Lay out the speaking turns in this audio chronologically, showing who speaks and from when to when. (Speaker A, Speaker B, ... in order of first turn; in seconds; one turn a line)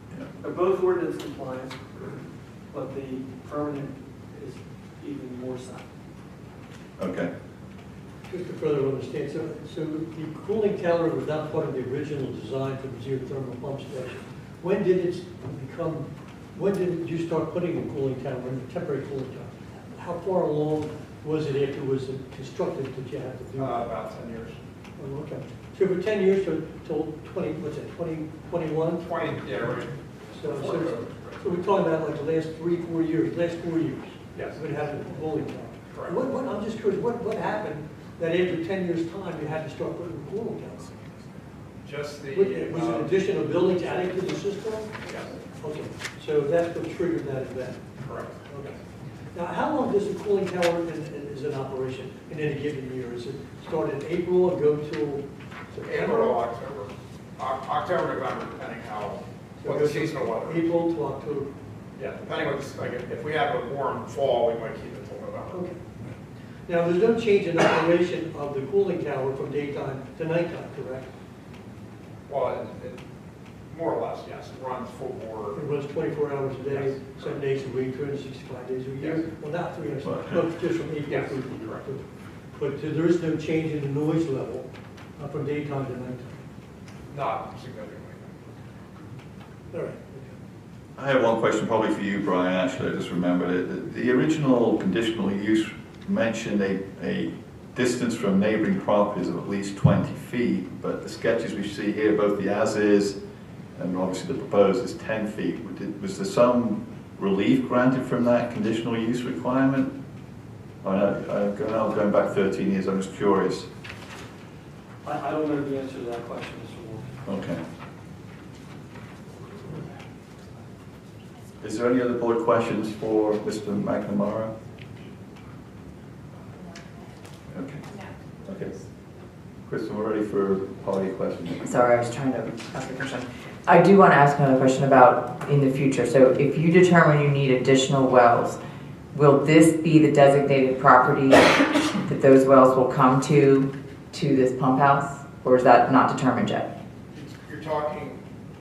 Speaker A: 0.4-2.2
Speaker A: 2.7-5.9
Speaker B: 7.0-7.3
Speaker C: 8.3-23.9
Speaker D: 23.6-24.6
Speaker C: 25.0-29.1
Speaker D: 29.0-31.6
Speaker C: 30.3-40.9
Speaker D: 34.3-34.6
Speaker D: 35.8-36.2
Speaker D: 41.8-43.2
Speaker C: 42.3-47.9
Speaker D: 45.0-45.4
Speaker D: 47.9-48.8
Speaker C: 48.4-48.8
Speaker C: 49.3-56.4
Speaker D: 55.8-60.6
Speaker C: 59.6-61.5
Speaker D: 62.0-65.6
Speaker C: 65.5-65.8
Speaker C: 66.7-71.1
Speaker D: 72.3-73.0
Speaker D: 73.7-75.6
Speaker C: 75.5-86.4
Speaker D: 76.7-77.4
Speaker D: 79.0-79.3
Speaker D: 81.0-81.9
Speaker D: 87.1-88.5
Speaker C: 89.7-90.3
Speaker B: 91.0-103.2
Speaker B: 103.7-109.9
Speaker B: 110.8-113.7
Speaker A: 115.0-117.2
Speaker B: 117.2-117.6
Speaker B: 121.6-124.5
Speaker B: 127.5-127.8
Speaker B: 128.4-128.7
Speaker B: 129.7-131.7
Speaker E: 131.6-138.6
Speaker E: 139.1-146.7
Speaker D: 147.1-148.2